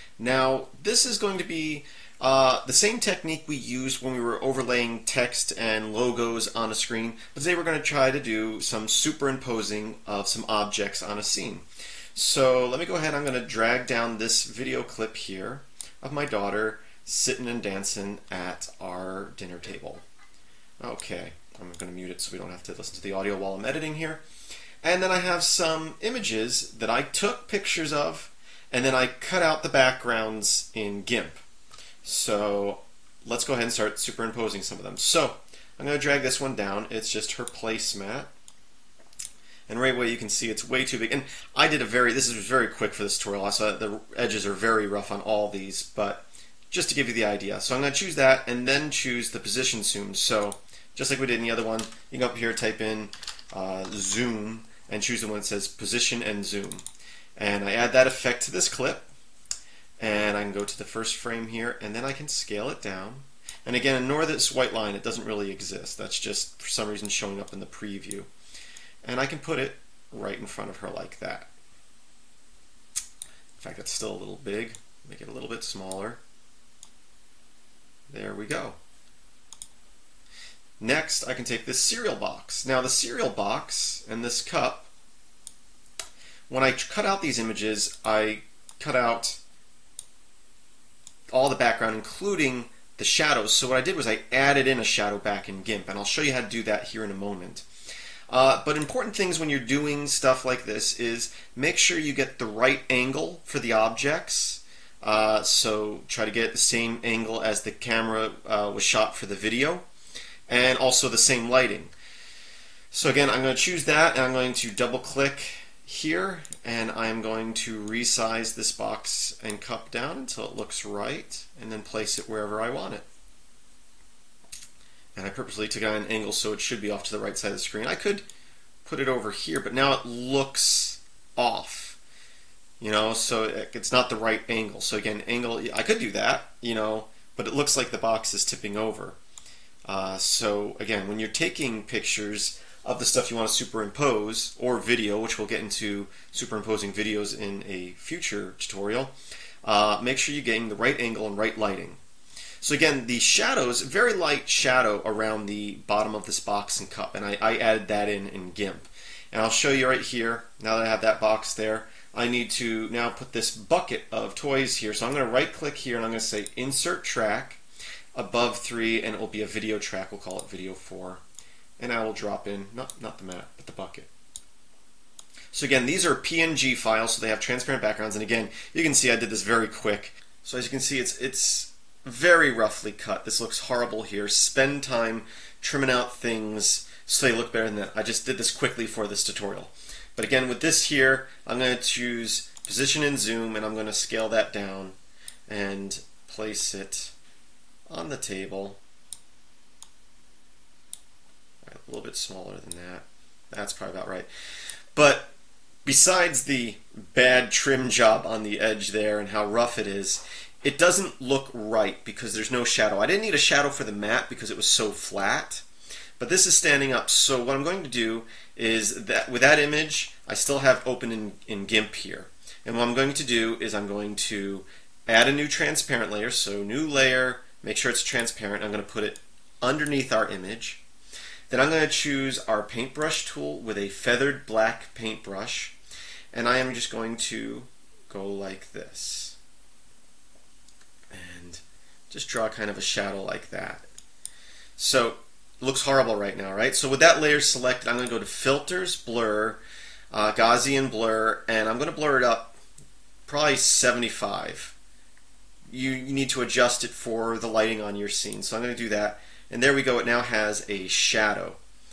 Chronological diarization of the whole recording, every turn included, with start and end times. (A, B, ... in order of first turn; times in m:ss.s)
0:00.2-0:20.0 A
0:20.8-0:24.2 A
0:24.8-0:31.4 A
0:32.0-0:38.3 A
0:39.7-0:56.8 A
0:57.4-0:59.1 A
1:00.0-1:08.3 A
1:09.0-1:11.5 A
1:13.6-1:16.2 A
1:18.1-1:18.8 A
1:20.8-1:24.9 A
1:26.5-1:29.4 A
1:31.3-1:37.6 A
1:38.3-1:49.8 A
1:50.5-1:51.9 A
1:52.9-2:03.0 A
2:05.1-2:08.2 A
2:08.8-2:12.0 A
2:12.8-2:19.2 A
2:19.9-2:32.0 A
2:32.6-2:47.6 A
2:48.1-2:51.2 A
2:51.8-2:54.1 A
2:55.5-3:14.9 A
3:15.5-3:17.1 A
3:17.9-3:18.8 A
3:21.6-3:24.3 A
3:24.9-3:25.3 A
3:25.9-3:35.6 A
3:36.2-3:50.8 A
3:51.5-3:55.8 A
3:56.3-3:59.4 A
4:01.1-4:03.8 A
4:04.8-4:09.6 A
4:10.1-4:12.5 A
4:13.3-4:14.8 A
4:15.7-4:21.6 A